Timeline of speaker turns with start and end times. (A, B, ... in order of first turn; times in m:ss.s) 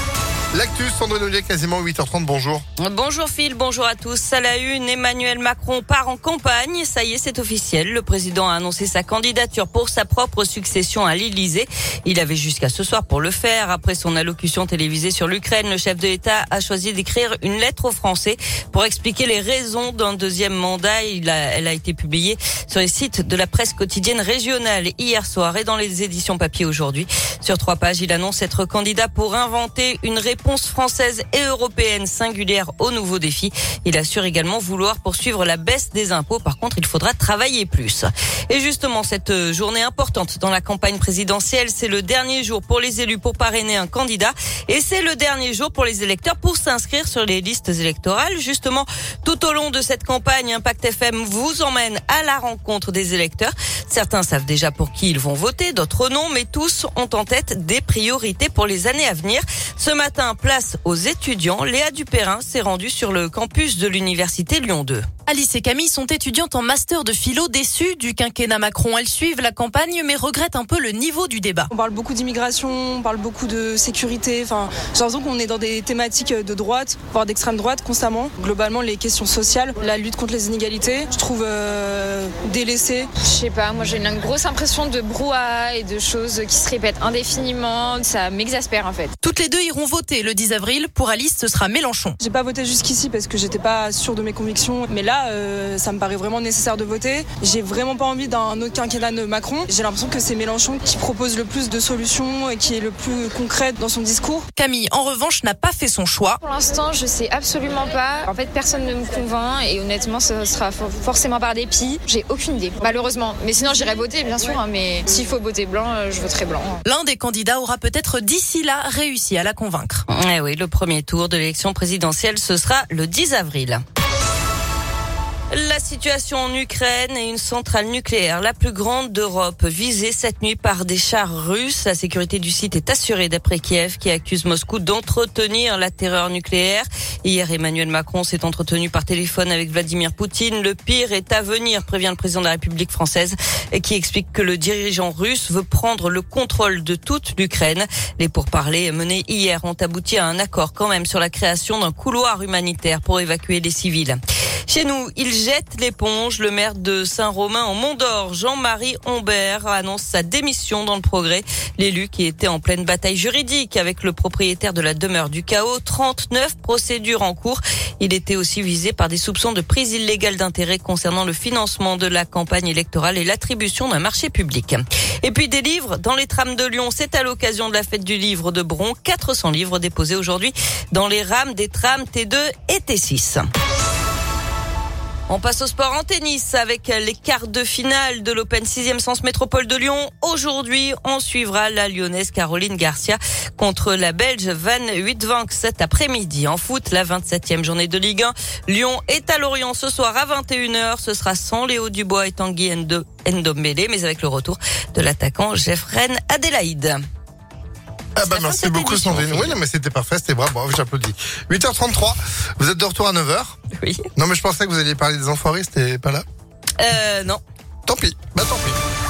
0:00.5-0:02.6 A
0:02.8-1:05.1 B
1:05.3-1:11.7 C
1:11.7-1:23.1 D
1:23.2-1:29.1 E
1:29.2-1:32.2 C
1:32.2-1:44.5 D
1:44.6-1:46.4 C
1:46.4-1:56.8 E
1:56.8-2:00.0 C
2:00.1-2:03.8 B
2:05.5-3:03.4 B
3:05.3-3:27.0 B
3:28.2-3:33.6 A
3:28.2-3:29.6 B
3:33.8-3:34.1 B
3:34.2-3:36.2 A
3:36.8-3:37.4 B
3:37.9-3:38.8 A